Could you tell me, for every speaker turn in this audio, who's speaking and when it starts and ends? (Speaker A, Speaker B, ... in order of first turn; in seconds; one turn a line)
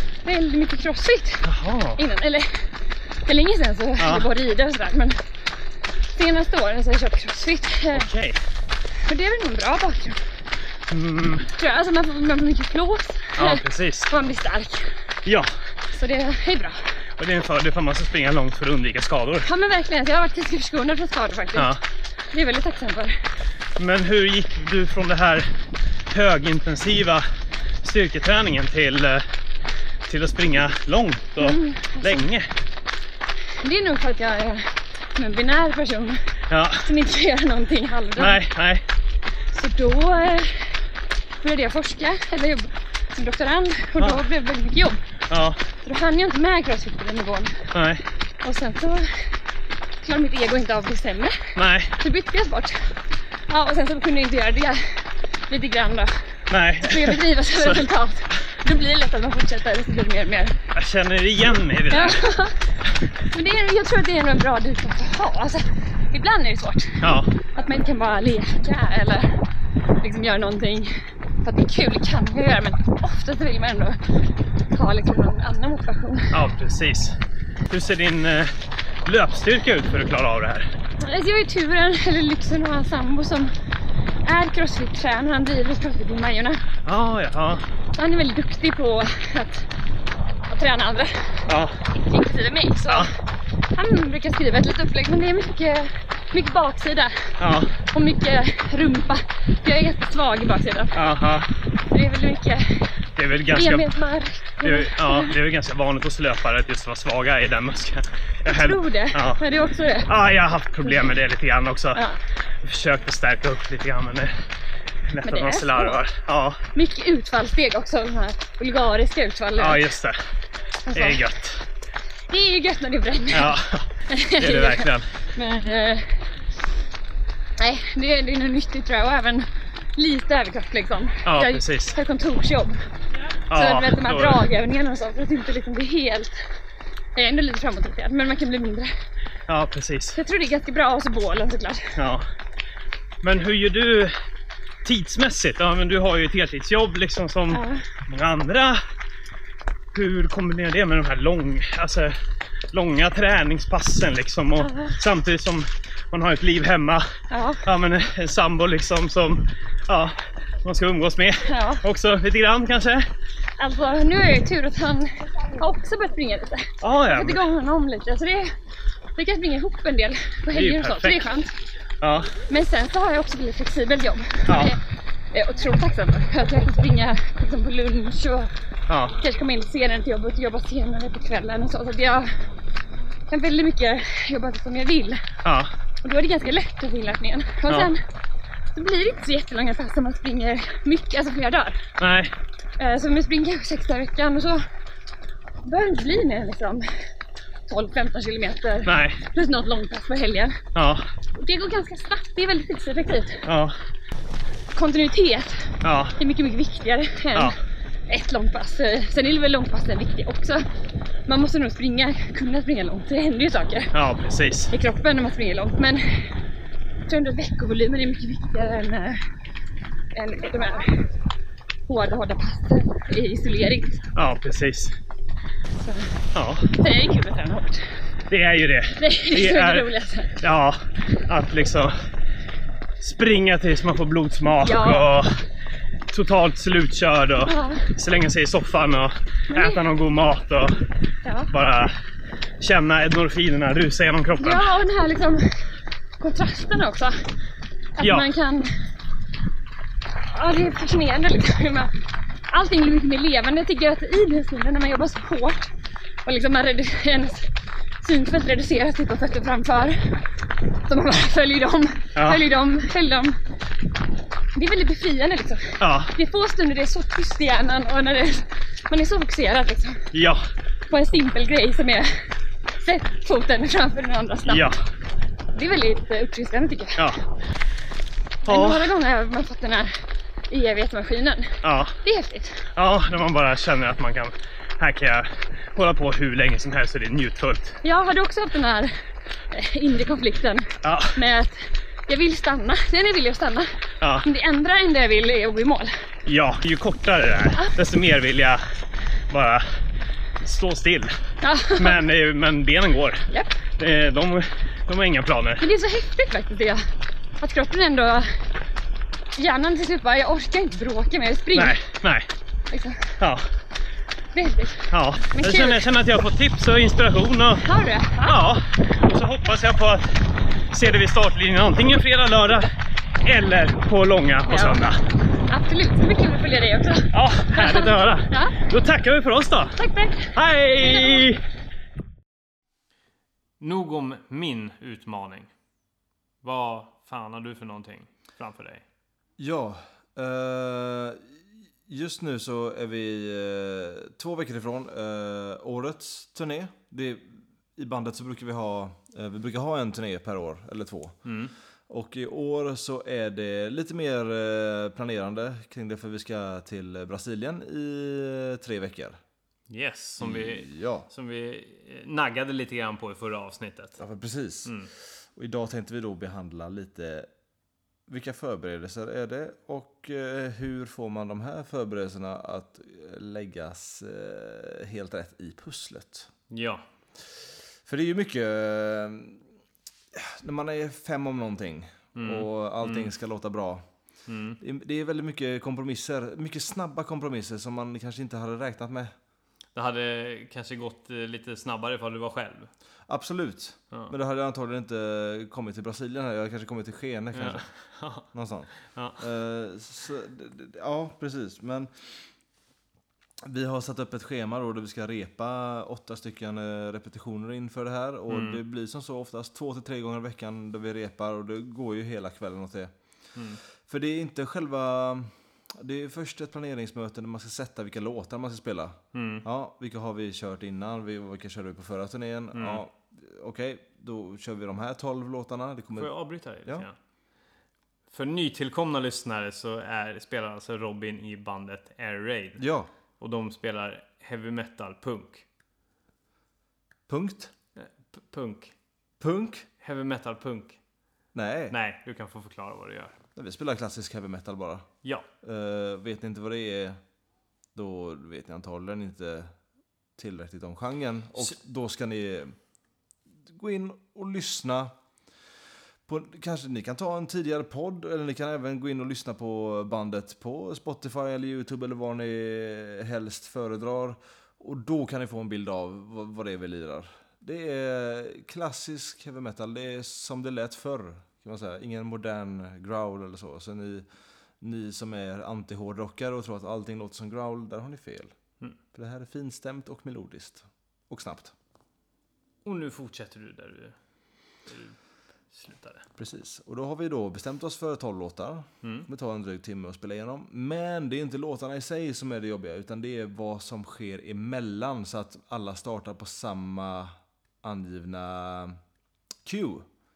Speaker A: 0.2-2.7
Speaker B: 1.4-2.0
Speaker A: 3.2-5.2
Speaker B: 4.0-4.3
Speaker A: 6.1-8.1
Speaker B: 7.9-8.4
Speaker A: 9.1-10.2
Speaker B: 10.9-11.5
Speaker A: 11.6-14.9
Speaker B: 13.4-14.1
Speaker B: 15.2-15.5
Speaker A: 15.9-16.8
Speaker B: 17.2-19.5
Speaker A: 19.4-21.8
Speaker A: 22.3-23.2
Speaker B: 23.8-25.5
Speaker B: 26.1-27.2
Speaker B: 27.8-29.2
Speaker B: 30.1-32.5
Speaker A: 31.4-32.3
Speaker A: 33.6-36.2
Speaker B: 36.5-36.9
Speaker A: 36.8-38.4
Speaker B: 38.2-38.8
Speaker A: 39.5-40.7
Speaker A: 41.4-45.0
Speaker B: 45.3-45.6
Speaker A: 45.8-47.7
Speaker B: 47.7-48.0
Speaker A: 48.4-49.3
Speaker A: 50.0-52.9
Speaker B: 51.5-51.9
Speaker A: 53.5-56.2
Speaker B: 56.5-57.9
Speaker A: 56.8-60.6
Speaker B: 60.7-62.2
Speaker A: 61.9-62.6
Speaker A: 63.3-69.4
Speaker B: 67.0-67.3
Speaker A: 70.0-74.2
Speaker A: 74.7-76.4
Speaker B: 76.3-77.2
Speaker B: 77.7-80.7
Speaker A: 81.0-83.5
Speaker A: 84.2-86.6
Speaker B: 86.8-87.6
Speaker A: 88.0-89.7
Speaker A: 90.5-93.1
Speaker B: 91.5-91.8
Speaker A: 93.7-101.2
Speaker B: 97.4-97.8
Speaker B: 100.9-101.5
Speaker A: 101.9-102.9
Speaker B: 103.2-103.9
Speaker A: 103.5-105.4
Speaker B: 104.6-109.4
Speaker A: 108.5-110.2
Speaker B: 110.0-112.0
Speaker A: 110.8-111.1
Speaker B: 112.6-114.3
Speaker B: 115.1-116.6
Speaker A: 115.2-116.0
Speaker A: 116.7-119.9
Speaker B: 119.6-120.2
Speaker A: 120.8-121.2
Speaker B: 120.9-121.6
Speaker A: 122.3-126.2
Speaker B: 123.3-125.1
Speaker A: 127.6-132.8
Speaker B: 131.2-131.9
Speaker B: 133.5-134.4
Speaker A: 133.5-136.3
Speaker A: 137.2-138.9
Speaker B: 139.5-140.2
Speaker A: 140.1-142.0
Speaker B: 141.9-142.2
Speaker B: 143.2-144.2
Speaker B: 144.8-148.8
Speaker A: 147.5-147.8
Speaker B: 149.9-152.2
Speaker B: 152.7-157.1
Speaker A: 154.6-154.9
Speaker A: 157.3-157.6
Speaker B: 157.6-163.1
Speaker A: 161.5-161.8
Speaker A: 163.6-168.5
Speaker B: 166.8-167.4
Speaker A: 169.2-171.5
Speaker B: 170.5-171.2
Speaker B: 172.0-172.3
Speaker A: 172.5-174.8
Speaker B: 174.5-174.7
Speaker A: 175.3-178.5
Speaker B: 178.9-179.2
Speaker A: 179.1-182.3
Speaker A: 183.3-185.2
Speaker B: 185.4-185.7
Speaker A: 186.0-188.0
Speaker B: 187.7-187.9
Speaker A: 188.7-191.8
Speaker B: 192.0-192.3
Speaker A: 192.8-194.6
Speaker A: 195.6-196.9
Speaker A: 197.7-200.6
Speaker B: 198.8-199.2
Speaker B: 200.7-201.0
Speaker A: 201.4-203.5
Speaker B: 203.4-203.8
Speaker A: 204.7-207.6
Speaker B: 205.8-206.2
Speaker A: 208.1-210.7
Speaker A: 211.3-213.9
Speaker B: 213.9-214.7
Speaker A: 214.7-216.4
Speaker A: 217.1-219.2
Speaker A: 220.1-221.0
Speaker A: 221.9-224.1
Speaker B: 224.1-224.9
Speaker A: 225.8-227.8
Speaker B: 226.3-226.7
Speaker B: 228.3-231.9
Speaker A: 229.0-230.4
Speaker B: 233.0-235.4
Speaker A: 234.6-235.1
Speaker B: 236.1-240.8
Speaker A: 237.4-237.8
Speaker A: 239.5-239.8
Speaker A: 241.2-241.5
Speaker B: 241.5-241.9
Speaker B: 242.6-244.7
Speaker A: 244.4-245.5
Speaker A: 246.2-247.1
Speaker A: 248.0-248.7
Speaker B: 248.0-248.3
Speaker A: 250.3-251.9
Speaker A: 252.5-255.7
Speaker A: 256.2-257.5
Speaker A: 258.0-260.2
Speaker A: 260.9-263.4
Speaker B: 262.1-262.4
Speaker A: 264.5-270.1
Speaker B: 265.8-266.1
Speaker B: 270.1-270.5
Speaker A: 270.9-272.2
Speaker A: 272.8-274.7
Speaker B: 274.5-274.7
Speaker A: 275.5-277.1
Speaker B: 277.0-277.2
Speaker A: 278.4-279.9
Speaker B: 278.5-278.9
Speaker A: 280.5-282.7
Speaker B: 281.6-281.9
Speaker B: 282.8-287.8
Speaker A: 287.8-288.9
Speaker A: 289.5-293.7
Speaker B: 290.8-291.2
Speaker B: 294.0-294.3
Speaker A: 294.2-295.9
Speaker B: 296.2-298.6
Speaker B: 299.3-299.7
Speaker B: 300.4-301.2
Speaker A: 301.4-302.0
Speaker B: 301.8-305.6
Speaker A: 305.6-306.8
Speaker A: 307.4-308.3
Speaker A: 309.4-311.8
Speaker B: 311.5-312.3
Speaker A: 312.7-313.2
Speaker B: 313.2-313.5
Speaker A: 314.3-315.9
Speaker B: 314.9-317.6
Speaker A: 317.6-318.5
Speaker B: 318.2-320.2
Speaker B: 320.7-325.0
Speaker A: 324.5-324.9
Speaker A: 325.5-328.6
Speaker B: 327.1-329.8
Speaker A: 329.8-331.3
Speaker B: 330.3-331.4
Speaker C: 333.6-335.5
Speaker C: 336.4-338.8
Speaker D: 339.4-351.2
Speaker C: 351.2-351.5
Speaker D: 351.9-359.2
Speaker C: 359.7-364.0
Speaker D: 360.2-361.1
Speaker D: 364.0-367.3
Speaker C: 364.6-364.9
Speaker D: 368.1-376.3
Speaker C: 376.5-376.8
Speaker D: 377.9-379.4
Speaker D: 380.1-383.9
Speaker C: 382.1-383.1
Speaker C: 384.3-384.6
Speaker D: 384.6-389.1
Speaker C: 389.7-392.7
Speaker D: 393.1-397.7
Speaker C: 397.3-399.2
Speaker D: 398.2-402.1
Speaker D: 403.4-412.9
Speaker C: 408.3-408.6
Speaker D: 413.8-426.1
Speaker C: 419.1-419.4
Speaker C: 422.5-422.8
Speaker C: 425.9-426.9
Speaker C: 428.1-432.6
Speaker D: 432.6-432.9
Speaker C: 433.2-435.4
Speaker D: 437.1-437.5
Speaker C: 437.8-438.7
Speaker D: 439.2-439.7
Speaker C: 439.8-440.8
Speaker D: 441.3-441.8
Speaker C: 441.7-443.2
Speaker D: 443.3-444.9
Speaker D: 445.4-447.0
Speaker D: 447.7-449.5
Speaker D: 450.2-452.6
Speaker D: 453.4-454.9
Speaker D: 456.1-474.1
Speaker D: 474.6-478.3
Speaker D: 478.9-481.5
Speaker C: 482.6-483.9
Speaker C: 484.7-484.9
Speaker C: 485.5-486.1
Speaker D: 486.2-498.8
Speaker C: 488.8-489.1
Speaker D: 499.4-499.9